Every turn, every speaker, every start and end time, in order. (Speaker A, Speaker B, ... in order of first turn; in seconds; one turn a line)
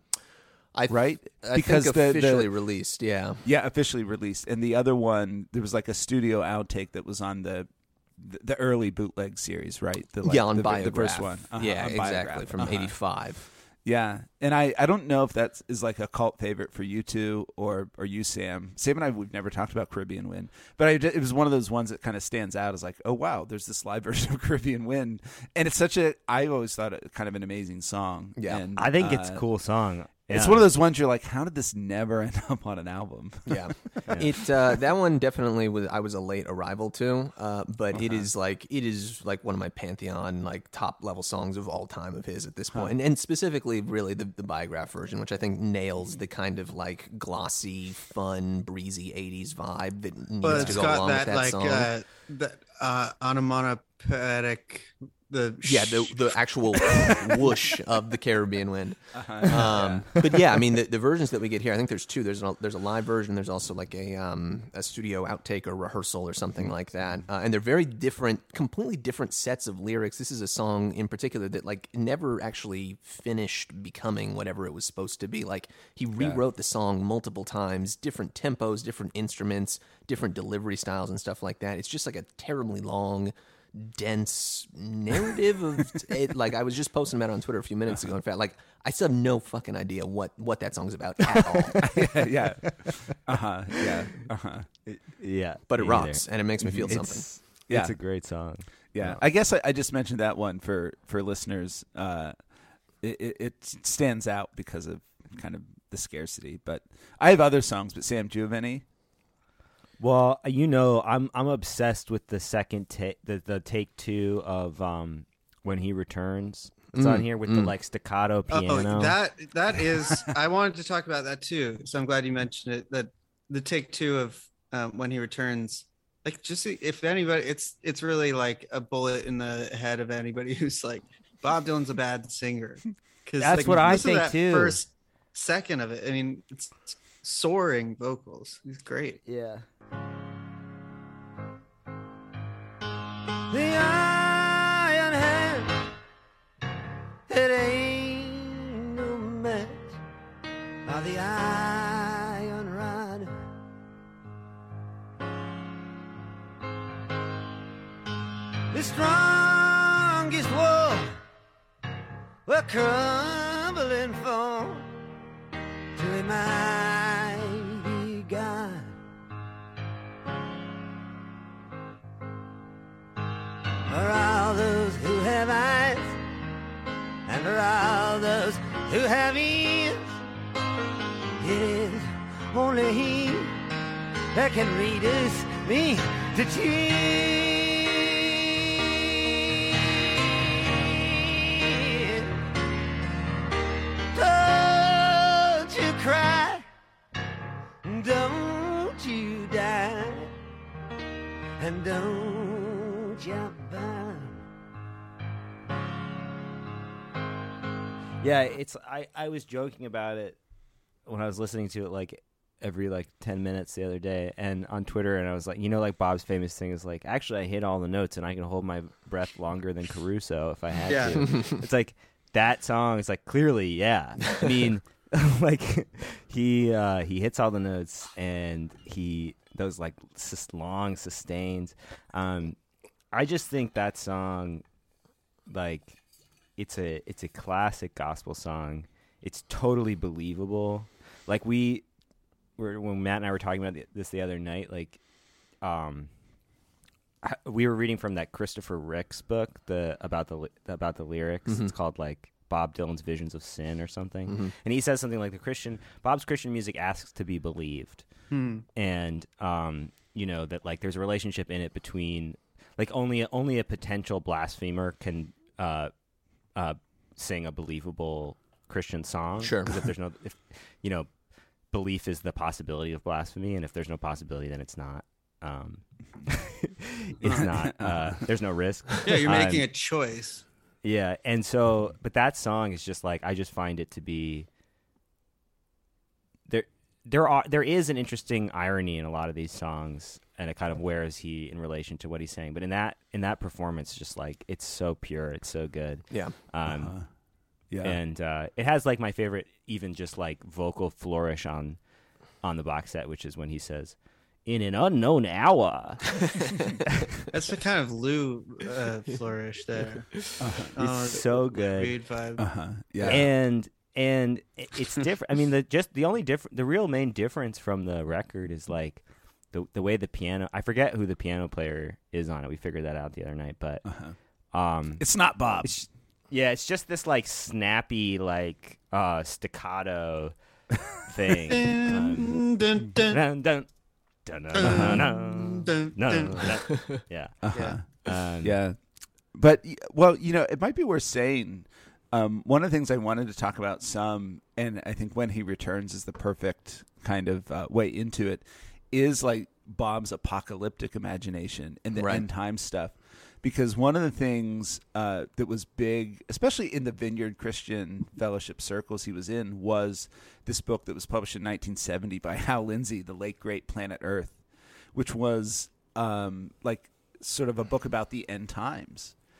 Speaker A: 0.7-3.4
Speaker B: 0.9-2.5
Speaker B: 3.4-13.0
Speaker A: 10.2-13.4
Speaker B: 13.8-29.4
Speaker A: 28.4-28.6
Speaker C: 28.8-30.6
Speaker B: 30.3-34.1
Speaker A: 33.5-51.9
Speaker B: 38.0-38.2
Speaker D: 50.4-56.1
Speaker B: 50.5-51.1
Speaker A: 55.6-92.0
Speaker B: 59.1-60.3
Speaker C: 91.3-92.0
Speaker B: 91.8-94.7
Speaker C: 92.6-92.9
Speaker C: 94.9-98.7
Speaker A: 95.7-97.2
Speaker B: 96.6-108.8
Speaker C: 110.0-119.2
Speaker A: 116.9-117.7
Speaker D: 118.5-139.2
Speaker C: 133.4-134.8
Speaker C: 139.2-139.6
Speaker E: 143.5-145.7
Speaker E: 147.3-150.0
Speaker E: 150.8-153.4
Speaker E: 158.7-161.2
Speaker E: 162.4-164.9
Speaker E: 165.9-168.9
Speaker E: 173.9-176.2
Speaker E: 177.2-180.1
Speaker E: 181.4-183.6
Speaker E: 184.3-189.6
Speaker E: 190.8-192.4
Speaker E: 194.1-196.6
Speaker E: 197.8-200.3
Speaker E: 201.6-204.4
Speaker C: 208.2-210.4
Speaker C: 211.1-232.6
Speaker D: 220.9-221.2
Speaker C: 233.1-234.6
Speaker C: 235.5-236.0
Speaker C: 236.6-241.8
Speaker C: 242.6-245.0
Speaker C: 245.6-246.1
Speaker C: 247.2-258.1
Speaker A: 254.3-254.5
Speaker D: 258.3-258.6
Speaker C: 258.7-265.9
Speaker C: 266.5-271.1
Speaker A: 269.4-269.9
Speaker C: 271.7-279.6
Speaker B: 277.4-278.1
Speaker D: 279.0-280.4
Speaker C: 280.8-284.5
Speaker C: 286.5-297.2
Speaker B: 296.6-297.1
Speaker B: 297.7-298.0
Speaker C: 297.8-301.8
Speaker C: 302.4-306.1
Speaker D: 307.3-313.3
Speaker B: 310.4-310.7
Speaker C: 310.8-312.0
Speaker B: 312.4-313.2
Speaker C: 313.1-330.3
Speaker B: 323.8-324.2
Speaker B: 325.0-325.8
Speaker C: 331.0-332.5
Speaker D: 331.5-333.2
Speaker C: 333.1-333.7
Speaker C: 334.2-338.6
Speaker D: 334.5-336.5
Speaker B: 334.6-335.0
Speaker A: 336.3-337.0
Speaker B: 337.4-364.4
Speaker D: 337.5-337.8
Speaker A: 351.9-352.2
Speaker B: 364.9-369.2